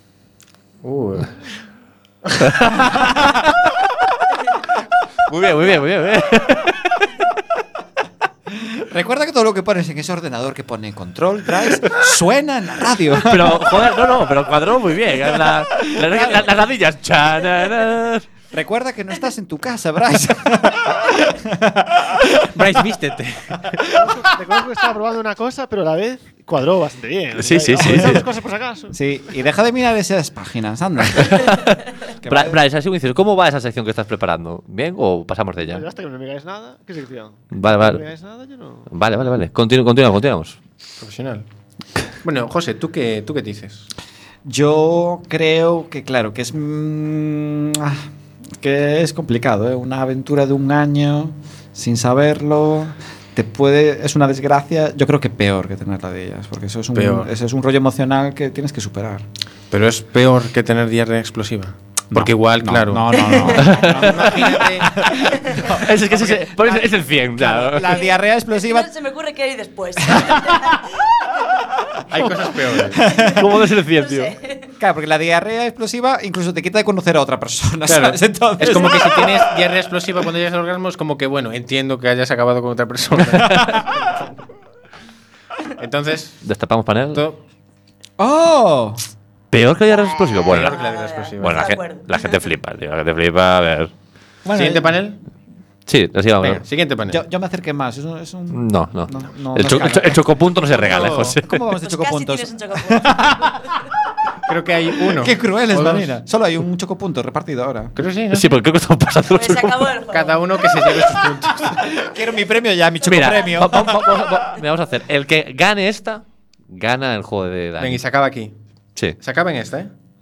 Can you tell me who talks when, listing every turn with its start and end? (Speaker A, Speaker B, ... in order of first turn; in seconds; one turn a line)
Speaker A: 0.8-1.4
Speaker B: 2.5-3.5
Speaker B: 5.3-7.1
Speaker C: 8.5-14.0
Speaker B: 13.2-18.2
Speaker C: 15.2-16.5
Speaker C: 18.5-22.6
Speaker A: 22.5-23.9
Speaker D: 23.9-28.9
Speaker B: 27.3-28.2
Speaker C: 27.9-28.2
Speaker C: 28.9-31.6
Speaker B: 31.1-35.8
Speaker C: 32.2-32.6
Speaker D: 35.7-38.9
Speaker B: 37.5-38.0
Speaker B: 38.9-40.6
Speaker A: 41.0-41.4
Speaker A: 42.2-43.9
Speaker C: 44.4-48.1
Speaker C: 48.6-59.2
Speaker A: 56.9-57.3
Speaker A: 59.7-63.1
Speaker C: 62.1-68.9
Speaker E: 63.2-63.7
Speaker B: 63.5-64.6
Speaker A: 63.7-65.1
Speaker B: 65.6-68.0
Speaker A: 66.0-66.3
Speaker E: 67.9-71.7
Speaker C: 70.1-70.7
Speaker A: 72.1-73.0
Speaker C: 73.0-73.4
Speaker E: 73.1-73.4
Speaker B: 73.3-74.3
Speaker E: 73.9-74.7
Speaker C: 74.8-79.5
Speaker A: 77.9-84.3
Speaker B: 83.5-83.8
Speaker A: 85.8-86.4
Speaker B: 86.4-87.2
Speaker A: 87.1-87.4
Speaker C: 88.2-89.0
Speaker B: 89.5-90.8
Speaker E: 89.9-92.4
Speaker A: 90.4-91.7
Speaker B: 91.4-93.9
Speaker C: 94.4-95.0
Speaker A: 94.5-95.2
Speaker B: 95.9-96.6
Speaker A: 96.4-97.2
Speaker C: 97.1-100.3
Speaker B: 98.5-101.6
Speaker A: 100.7-101.4
Speaker C: 101.3-103.7
Speaker E: 101.8-103.8
Speaker A: 104.5-106.1
Speaker C: 105.1-107.9
Speaker A: 108.0-108.5
Speaker B: 108.3-109.9
Speaker E: 109.3-110.9
Speaker A: 110.1-111.9
Speaker C: 111.6-114.4
Speaker B: 113.0-118.0
Speaker A: 117.8-118.5
Speaker A: 119.2-119.9